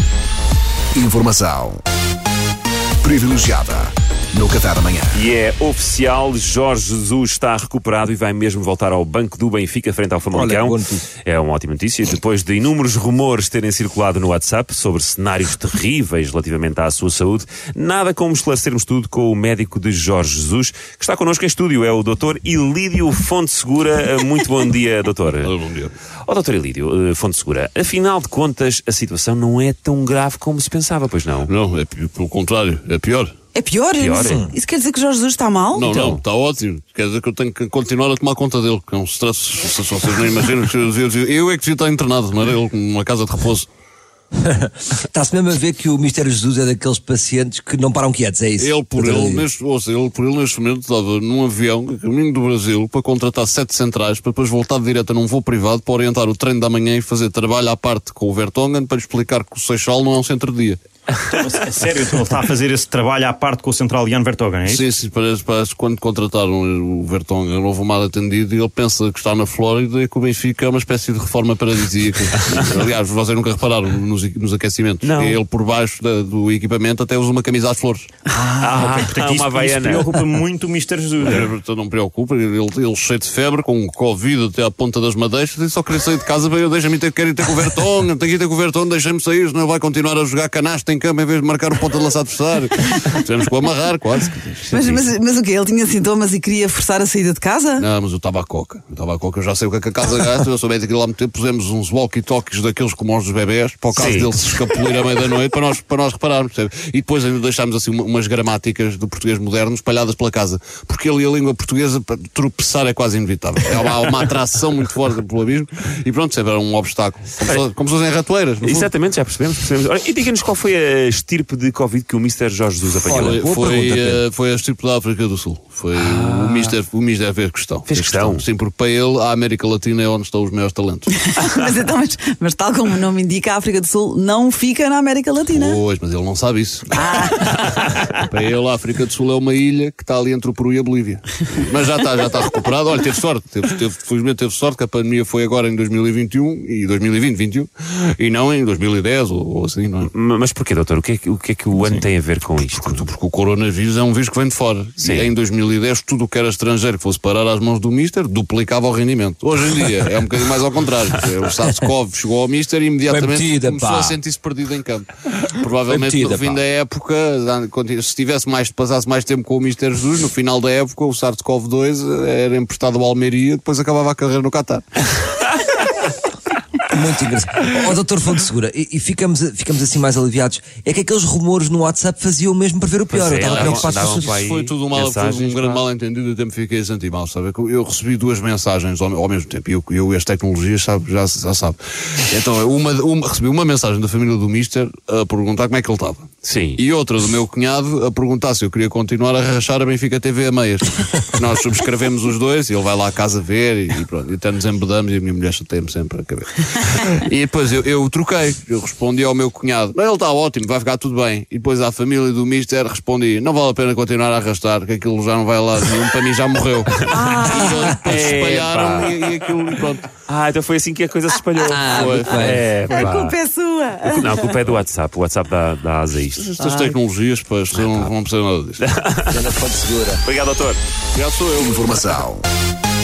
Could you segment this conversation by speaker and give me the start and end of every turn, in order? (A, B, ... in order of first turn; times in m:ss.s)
0:00.9-0:01.8 A
0:03.0-0:05.3 A
0:05.1-0:25.6 B
0:10.3-0:11.1 C
0:25.4-0:26.0 D
0:26.2-0:31.5 B
0:31.4-0:33.3 D
0:33.6-0:36.0 E
0:34.0-0:34.5 B
0:35.7-0:43.7 D
0:35.9-0:36.2 B
0:44.4-0:49.5 C
0:48.6-1:00.8 D
1:01.2-1:04.8 F
1:04.7-1:18.1 D
1:15.0-1:15.4 B
1:18.3-1:21.5 F
1:18.6-1:20.2 B
1:21.2-1:35.0 D
1:32.8-1:33.2 E
1:34.7-1:37.9 E
1:37.8-1:58.9 D
1:43.9-1:44.3 B
1:58.6-2:03.4 B
2:03.1-2:04.2 C
2:03.1-2:11.2 D
2:06.0-2:06.7 B
2:07.9-2:08.4 B
2:11.1-2:15.8 E
2:15.5-2:17.4 D
2:16.9-2:17.6 E
2:18.2-2:30.1 D
2:30.0-2:33.0 B
2:32.7-2:55.1 D
2:35.0-2:35.3 B
2:43.1-2:44.2 C
2:45.9-2:46.6 C
2:56.9-3:04.3 C
3:03.1-3:05.8 B
3:03.4-3:40.1 D
3:16.4-3:16.8 B
3:37.1-3:37.7 E
3:37.1-3:43.4 B
3:41.8-3:42.7 C
3:41.9-3:44.6 E
3:41.9-3:42.2 D
3:44.0-3:47.0 B
3:46.4-3:48.9 D
3:47.7-3:48.1 B
3:48.8-3:49.5 B
3:49.3-3:50.2 C
3:50.2-3:50.8 B
3:51.2-3:51.8 D
3:51.6-3:52.5 A